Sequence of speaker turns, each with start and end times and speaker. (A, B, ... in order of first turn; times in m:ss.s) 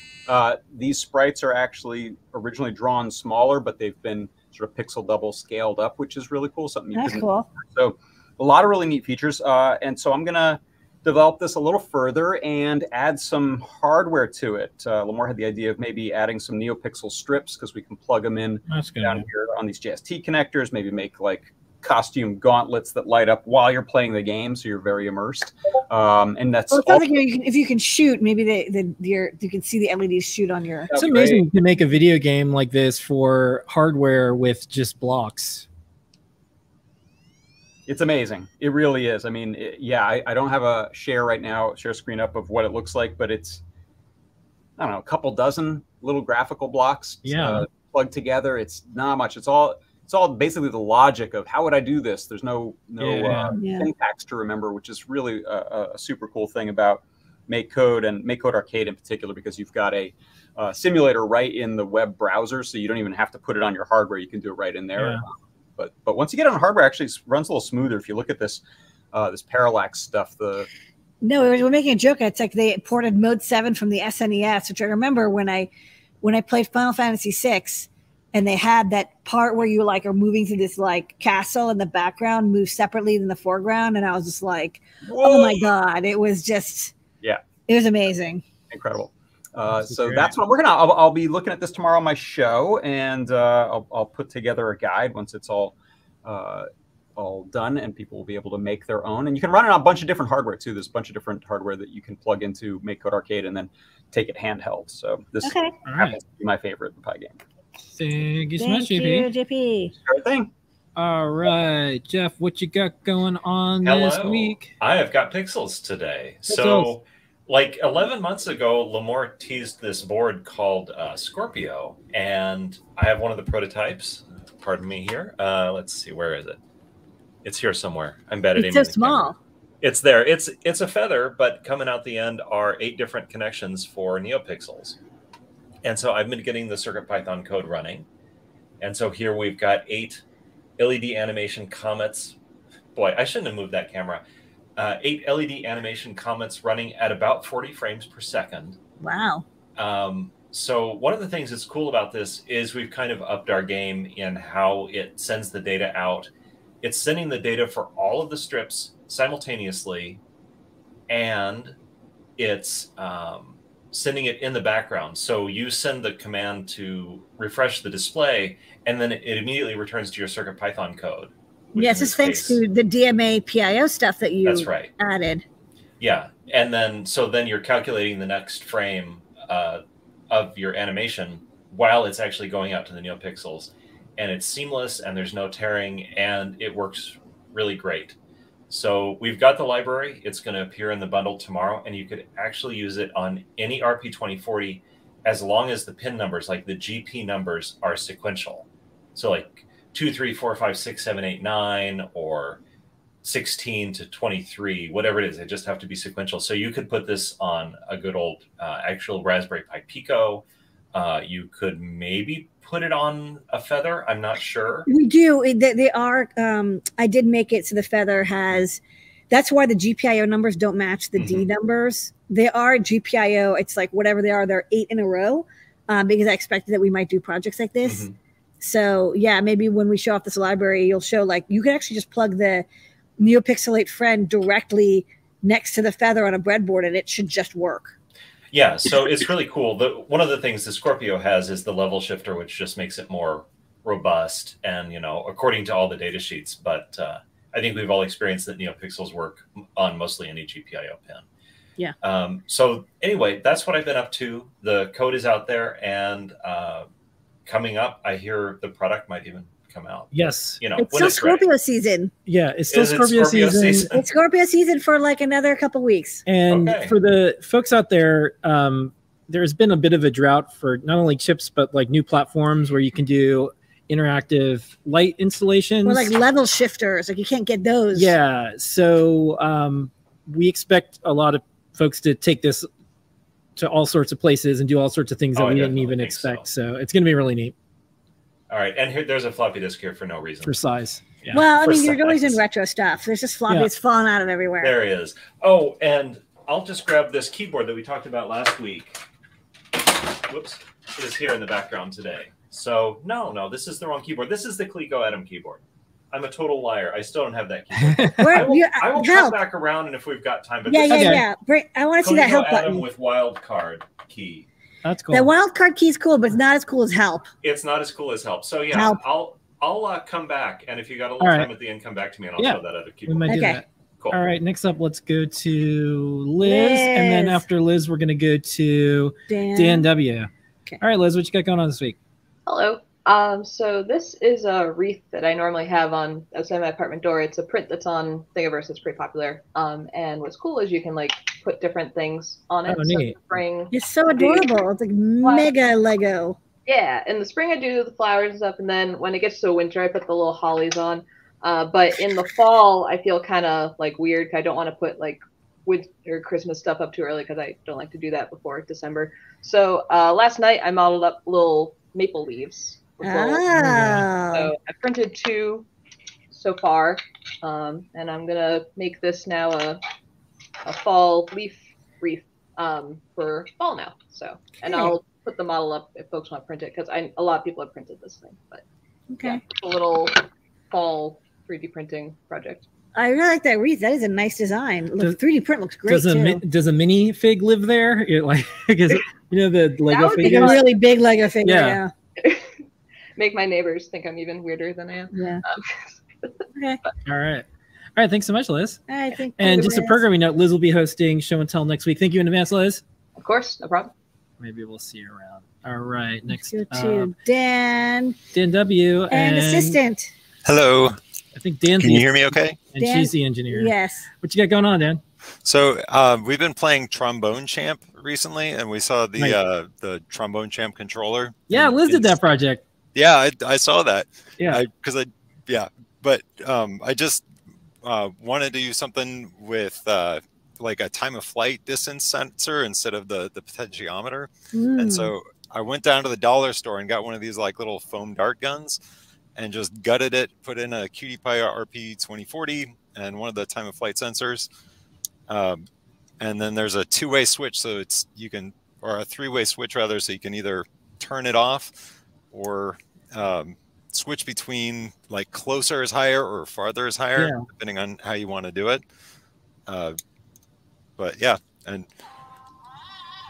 0:00.3-0:27.0 A
0:06.9-0:07.5 B
0:18.7-0:19.2 C
0:26.7-0:30.9 B
0:30.9-0:31.4 A
0:31.0-0:35.7 C
0:37.9-0:43.6 A
0:44.8-1:08.6 A
0:47.2-0:47.6 C
0:53.0-0:53.5 C
0:53.6-0:53.9 B
1:05.0-1:05.2 C
1:09.1-1:10.7 A
1:11.2-1:15.7 B
1:16.2-1:26.9 B
1:25.0-1:25.7 A
1:27.7-1:28.4 B
1:28.7-1:47.4 A
1:29.8-1:30.3 C
1:45.4-1:45.8 B
1:45.8-1:46.2 C
1:47.9-1:49.3 C
1:48.6-1:49.9 B
1:50.0-1:50.5 A
1:51.0-1:54.7 C
1:53.8-2:06.6 D
1:56.5-1:56.9 C
2:07.4-2:15.0 D
2:08.6-2:09.4 B
2:15.8-2:18.1 D
2:18.8-2:20.2 D
2:20.8-2:22.4 D
2:22.9-2:24.2 D
2:24.8-2:28.8 D
2:29.0-2:29.4 B
2:29.8-2:36.3 D
2:36.8-2:40.2 D
2:41.1-2:41.8 D
2:42.4-2:52.6 D
2:51.7-2:55.4 B
2:54.4-2:54.9 D
2:56.0-3:08.2 D
3:08.7-3:22.6 D
3:23.2-3:34.9 D
3:34.9-3:48.1 B
3:41.2-3:41.5 A
3:47.8-3:48.1 A
3:48.6-3:52.6 B
3:53.2-3:57.9 B
3:58.5-4:11.2 D
4:12.0-4:16.9 D
4:17.5-4:21.4 D
4:20.1-4:20.6 C
4:20.8-4:22.1 B
4:22.2-4:23.9 C
4:22.7-4:24.0 D
4:23.9-4:26.2 B
4:26.2-4:36.1 C
4:26.5-4:26.9 D
4:35.8-4:38.2 B
4:37.9-4:42.7 C
4:43.6-4:47.5 C
4:45.3-4:46.4 D
4:48.5-4:50.6 D
4:50.4-4:51.4 C
4:51.3-4:54.7 B
4:51.3-4:52.4 D
4:54.6-4:59.0 D
5:00.1-5:05.6 D
5:06.1-5:11.2 D
5:07.9-5:08.3 C
5:08.2-5:09.4 B
5:10.7-5:12.8 B
5:10.9-5:11.2 C
5:12.0-5:14.5 D
5:14.8-5:15.3 C
5:15.1-5:17.3 B
5:17.4-5:24.2 D
5:18.7-5:19.0 B
5:21.2-5:21.5 C
5:22.4-5:32.0 C
5:23.3-5:23.6 B
5:26.4-5:27.4 B
5:29.3-5:29.9 B
5:32.4-5:44.5 E
5:42.7-5:43.4 C
5:43.7-5:46.4 B
5:45.2-5:45.5 E
5:46.6-6:03.5 E
6:03.0-6:04.5 B
6:03.6-6:04.0 C
6:04.3-6:05.7 E
6:06.3-6:09.8 E
6:10.6-6:18.6 E
6:14.6-6:15.0 B
6:19.1-6:19.4 B
6:19.2-6:22.6 E
6:23.0-6:26.4 B
6:25.8-6:30.6 C
6:29.9-6:30.7 E
6:30.0-6:31.9 B
6:31.4-6:31.8 C
6:32.2-6:32.5 E
6:33.2-6:36.3 E
6:35.1-6:35.4 B
6:37.0-6:38.8 C
6:38.9-6:40.0 B
6:39.4-6:42.8 C
6:43.2-6:43.9 E
6:44.4-6:47.1 C
6:46.3-6:48.2 B
6:48.3-6:49.8 C
6:49.1-6:50.1 B
6:50.4-6:51.0 F
6:51.3-6:55.0 C
6:51.8-6:52.6 F
6:52.8-6:54.1 B
6:55.4-7:02.2 F
6:59.2-6:59.4 C
7:01.5-7:02.6 C
7:02.9-7:07.2 F
7:07.8-7:18.8 F
7:14.5-7:15.1 B
7:19.4-7:24.5 F
7:25.3-7:25.6 F
7:26.2-7:31.8 F
7:32.3-7:38.8 F
7:37.2-7:37.4 C
7:39.7-7:39.9 F
7:41.0-7:41.9 F